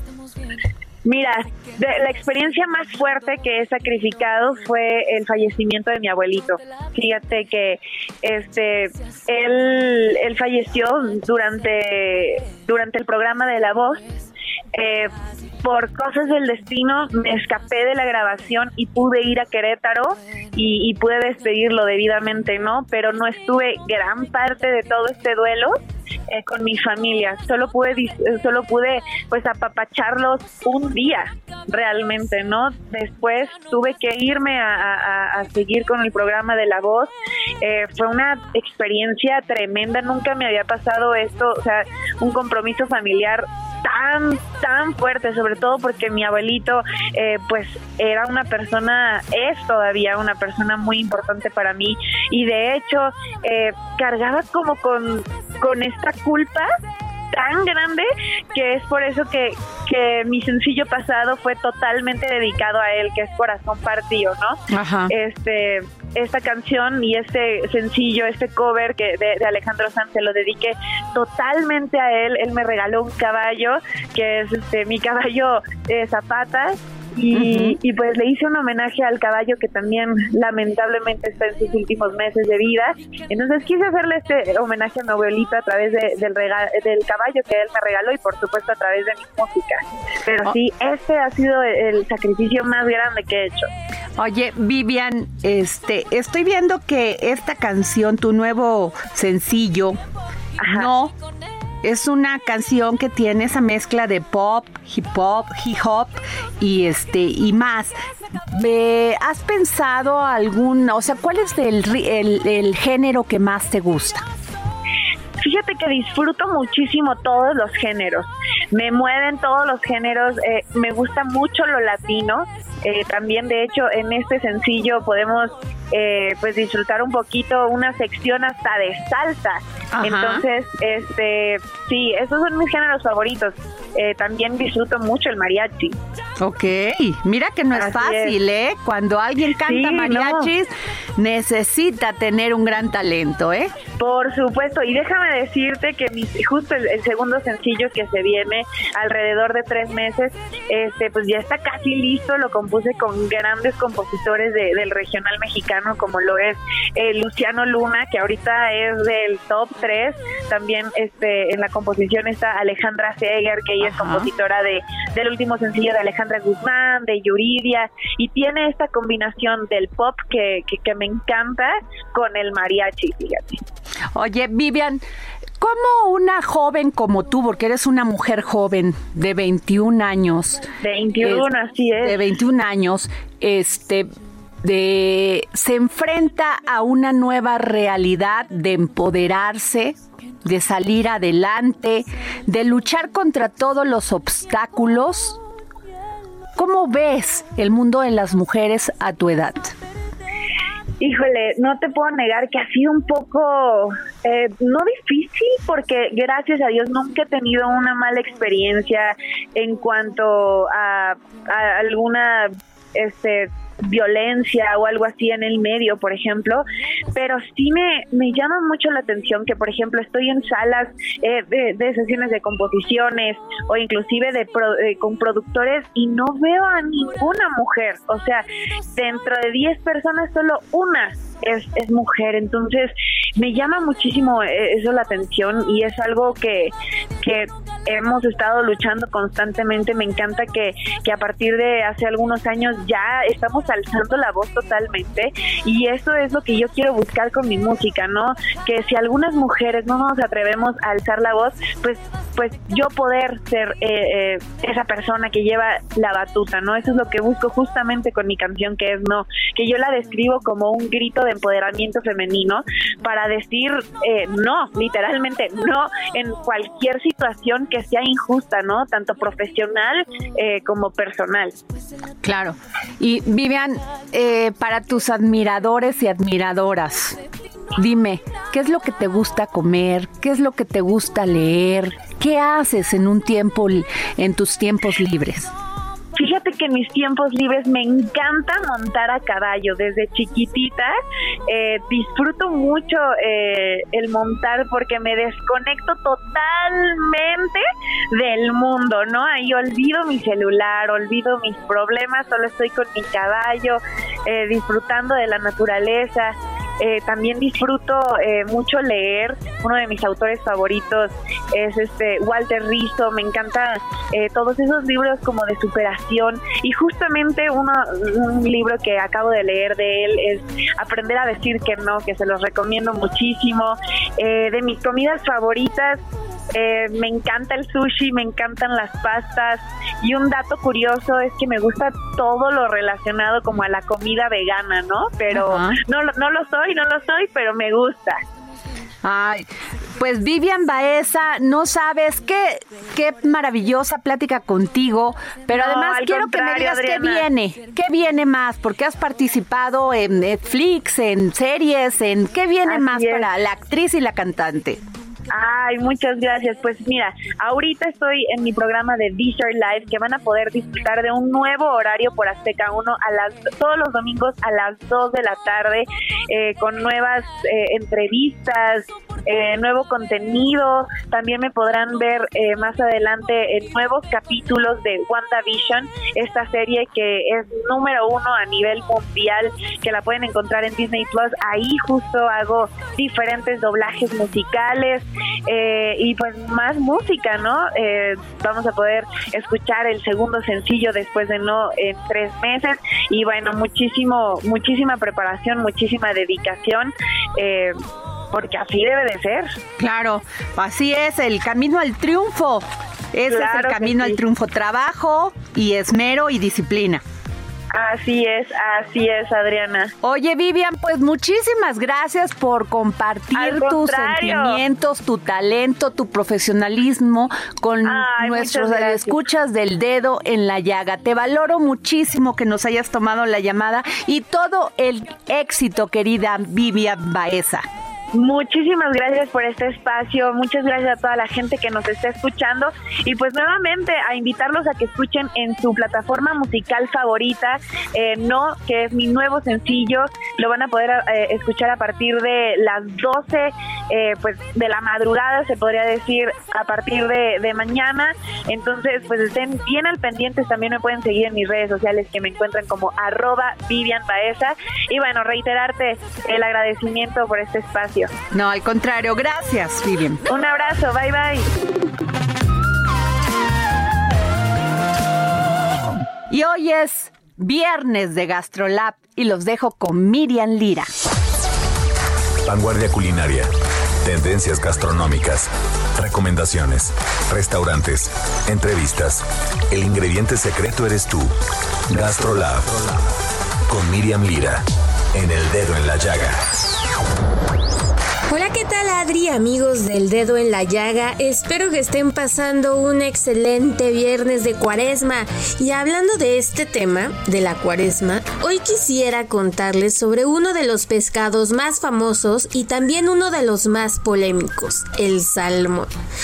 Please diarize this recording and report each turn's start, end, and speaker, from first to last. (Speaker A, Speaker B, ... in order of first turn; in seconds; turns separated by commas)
Speaker A: 1.0-14.0, Speaker A: 14.7-15.1, Speaker A: 15.6-25.8, Speaker A: 26.3-56.7, Speaker A: 57.3-64.6, Speaker B: 64.7-65.1, Speaker A: 65.1-93.7, Speaker B: 77.3-77.8, Speaker B: 94.2-100.0, Speaker A: 100.6-100.9, Speaker B: 100.6-101.1, Speaker B: 101.8-108.0, Speaker B: 108.5-114.3, Speaker A: 115.4-136.0, Speaker B: 129.9-130.4, Speaker B: 136.4-143.7, Speaker A: 137.7-138.3, Speaker A: 139.6-140.5, Speaker A: 144.0-173.6, Speaker B: 163.8-164.3, Speaker B: 174.1-175.0, Speaker B: 175.6-180.7, Speaker A: 180.8-182.2, Speaker B: 181.2-181.5, Speaker B: 182.0-184.1, Speaker B: 184.6-195.4, Speaker B: 196.6-199.7, Speaker A: 201.0-271.6, Speaker B: 272.2-277.2, Speaker B: 277.8-285.5, Speaker A: 286.1-290.9, Speaker A: 291.5-326.0, Speaker A: 326.5-338.2, Speaker B: 335.3-335.8, Speaker B: 339.0-339.4, Speaker B: 340.0-354.8, Speaker A: 345.5-347.3, Speaker A: 352.7-353.2, Speaker A: 355.3-397.8, Speaker A: 398.3-399.5, Speaker B: 399.8-407.0, Speaker A: 403.2-404.2, Speaker A: 407.7-409.9, Speaker B: 410.0-427.6, Speaker A: 413.3-414.6, Speaker A: 417.8-419.2, Speaker A: 428.1-458.1, Speaker B: 458.3-460.2, Speaker A: 460.3-461.5, Speaker B: 466.3-470.9, Speaker C: 472.4-473.5, Speaker C: 474.0-481.3, Speaker C: 481.9-482.9, Speaker C: 483.7-484.6, Speaker C: 485.1-486.4, Speaker D: 488.3-505.9